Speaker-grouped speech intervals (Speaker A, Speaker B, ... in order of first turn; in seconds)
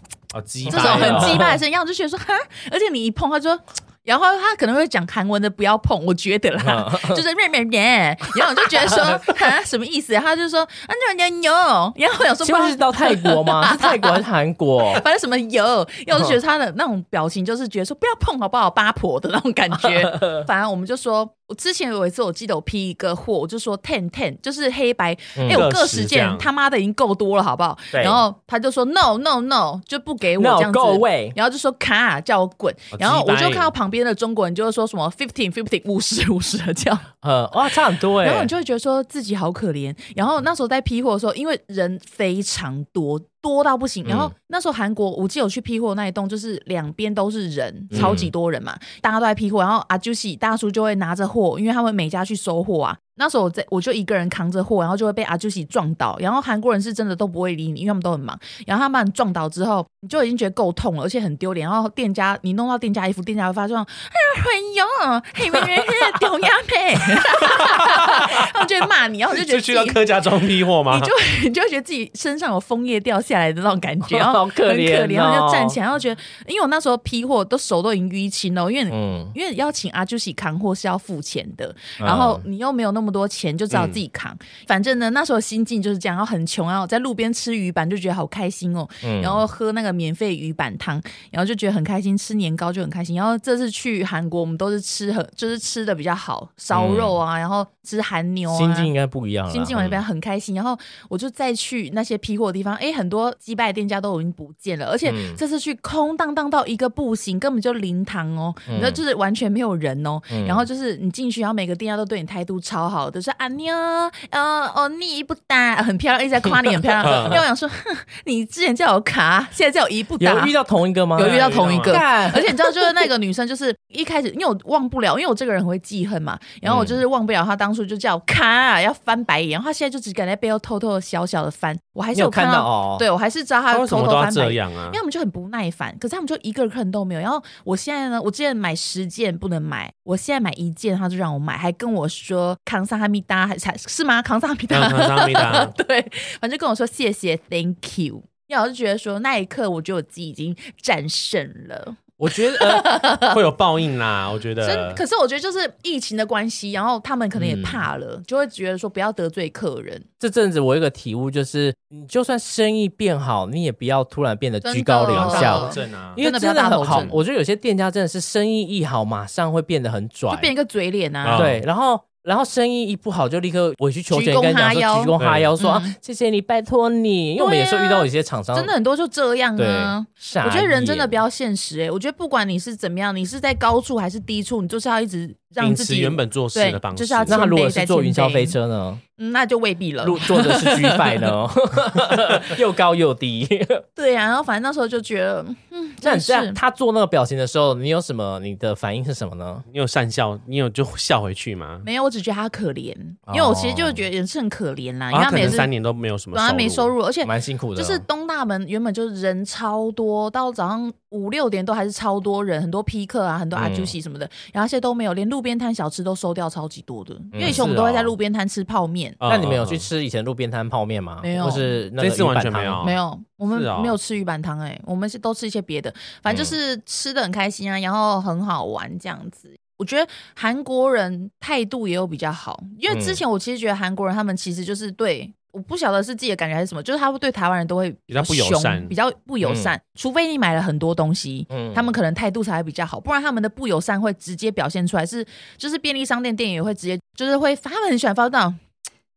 Speaker A: 0.3-1.5, 25.5-26.5, 32.9-33.7, 47.9-48.3, 67.5-68.3, 69.3-71.1, 83.7-84.0, 117.0-117.4, 121.2-122.0, 133.7-135.0, 144.7-145.7, 153.2-155.0, 165.1-166.2, 166.8-167.2, 171.2-171.6, 175.2-175.5, 185.6-187.4, 199.7-201.8, 205.1-206.9, 217.4-218.1, 219.2-219.8, 222.0-223.0, 223.5-223.9, 238.1-238.9
Speaker B: 0.7-1.6, 6.6-7.2, 12.4-15.0, 19.8-20.5, 25.4-25.7, 27.9-28.2, 30.4-31.4, 37.2-38.5, 44.1-44.3, 47.9-48.2, 65.5-66.2, 74.0-75.8, 78.9-79.3, 82.0-82.5, 89.0-89.4, 96.7-97.2, 98.5-100.0, 105.0-105.4, 108.7-109.0, 110.3-110.7, 120.2-123.1, 126.7-127.0, 132.1-133.0, 152.2-152.9, 157.3-157.8, 160.2-170.5, 171.3-178.7, 179.6-181.2, 187.3-189.0, 190.0-193.8, 196.0-199.7, 203.3-204.0, 207.2-208.0, 213.5-213.9, 217.3-217.6, 219.3-222.8, 232.9-233.2, 239.4-239.7, 241.5-241.9
Speaker C: 0.7-14.2, 14.8-37.1, 38.2-70.0, 70.9-98.9, 99.5-120.6, 121.2-153.4, 154.6-160.1, 164.6-167.2, 170.3-171.5, 174.1-175.9, 177.4-188.6, 189.2-191.3, 194.0-196.6, 201.8-205.7, 206.3-219.2, 221.2-221.7, 222.8-248.6